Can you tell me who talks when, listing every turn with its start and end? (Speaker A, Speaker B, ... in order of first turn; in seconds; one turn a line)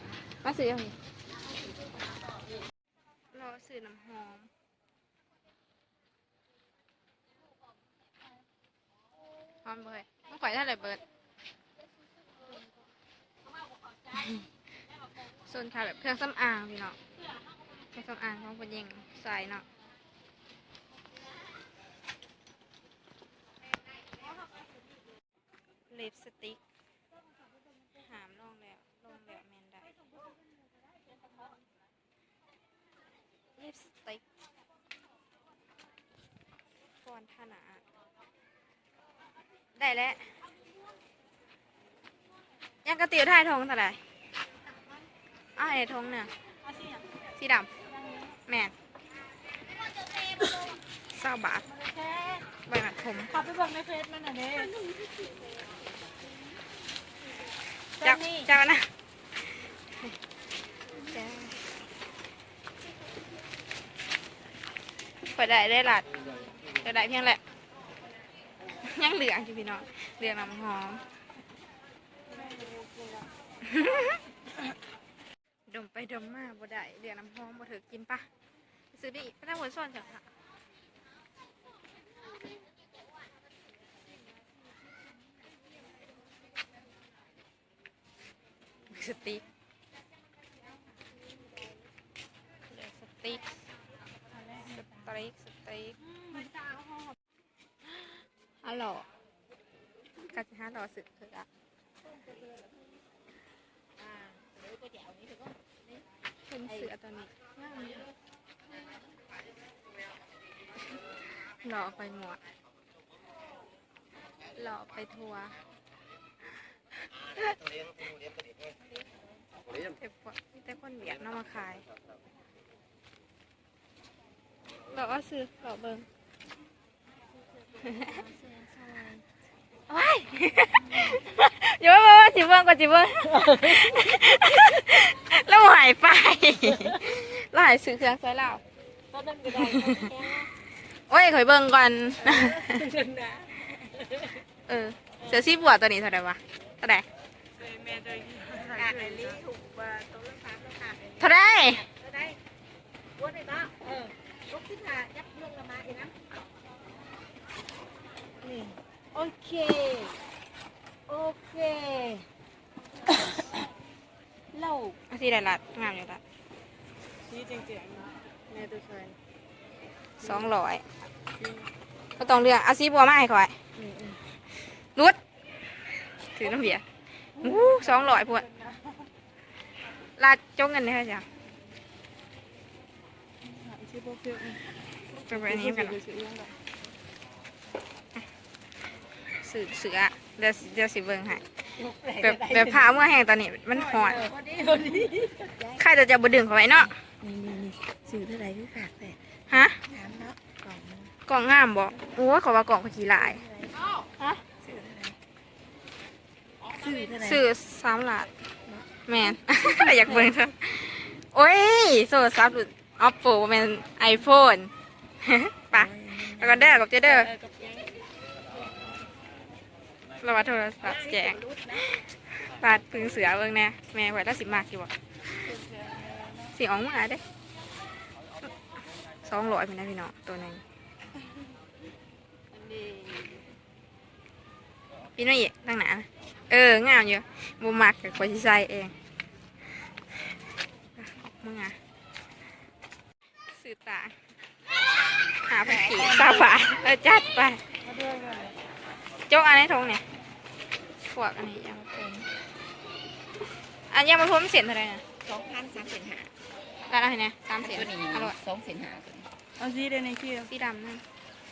Speaker A: 0.4-1.0
Speaker A: 3.3-4.5
Speaker A: 9.7-11.0
Speaker A: 14.1-14.4
Speaker A: 15.4-17.0
Speaker A: 17.9-19.7
Speaker A: 25.9-26.6
Speaker A: 28.0-29.9
Speaker A: 33.6-34.2
Speaker A: 37.0-37.8
Speaker A: 39.8-40.3
Speaker A: 42.8-44.0
Speaker A: 45.6-46.3
Speaker A: 47.4-47.7
Speaker A: 48.5-48.7
Speaker A: 51.1-51.6
Speaker B: 52.0-52.4
Speaker A: 52.7-53.4
Speaker B: 53.5-54.8
Speaker A: 58.0-58.9
Speaker A: 61.1-61.6
Speaker A: 65.3-66.1
Speaker A: 66.8-67.4
Speaker A: 68.8-71.0
Speaker C: 72.3-72.8
Speaker A: 73.6-74.2
Speaker A: 75.7-78.3
Speaker A: 78.9-80.3
Speaker A: 88.9-89.4
Speaker A: 92.7-93.6
Speaker A: 94.6-96.0
Speaker A: 98.0-99.1
Speaker A: 100.3-101.5
Speaker B: 104.0-105.5
Speaker A: 106.5-107.9
Speaker B: 107.7-107.9
Speaker A: 111.6-112.4
Speaker A: 114.5-115.6
Speaker A: 120.0-121.8
Speaker A: 124.9-126.1
Speaker A: 127.8-128.2
Speaker B: 128.0-129.2
Speaker A: 129.9-138.6
Speaker B: 139.1-140.5
Speaker A: 141.1-142.9
Speaker B: 142.3-144.2
Speaker A: 144.7-147.1
Speaker C: 147.6-149.4
Speaker B: 148.8-152.4
Speaker A: 151.2-151.8
Speaker B: 153.2-156.1
Speaker B: 158.4-160.2
Speaker B: 161.1-162.2
Speaker B: 164.5-165.0
Speaker A: 165.1-166.2
Speaker C: 167.3-169.2
Speaker A: 170.2-170.8
Speaker A: 172.2-173.6
Speaker B: 173.8-174.2
Speaker A: 176.3-176.8
Speaker A: 177.4-178.5
Speaker C: 177.4-178.0
Speaker A: 180.2-181.2
Speaker C: 183.4-184.6
Speaker C: 185.2-186.6
Speaker A: 185.3-186.0
Speaker A: 189.4-191.4
Speaker B: 191.8-192.8
Speaker A: 192.2-194.3
Speaker B: 194.0-195.8
Speaker A: 195.8-196.9
Speaker B: 197.2-199.2
Speaker A: 199.5-199.8
Speaker B: 199.9-201.1
Speaker A: 201.3-203.4
Speaker B: 203.3-204.1
Speaker A: 204.2-204.4
Speaker B: 204.6-205.2
Speaker B: 206.6-207.4
Speaker A: 206.9-208.3
Speaker A: 209.1-217.3
Speaker B: 216.0-217.9
Speaker A: 220.2-224.9
Speaker B: 220.9-221.9
Speaker C: 225.5-226.4
Speaker A: 226.5-227.2
Speaker A: 229.2-230.6
Speaker B: 232.5-233.4
Speaker A: 235.2-238.9
Speaker A: 241.0-241.8
Speaker A: 243.5-244.2
Speaker A: 245.4-247.6
Speaker C: 245.6-246.5
Speaker C: 247.9-248.5
Speaker A: 249.3-250.0
Speaker A: 251.1-252.3
Speaker A: 253.9-255.0
Speaker B: 255.2-256.3
Speaker A: 256.9-258.4
Speaker B: 257.6-259.3
Speaker C: 259.6-260.5
Speaker A: 260.5-261.0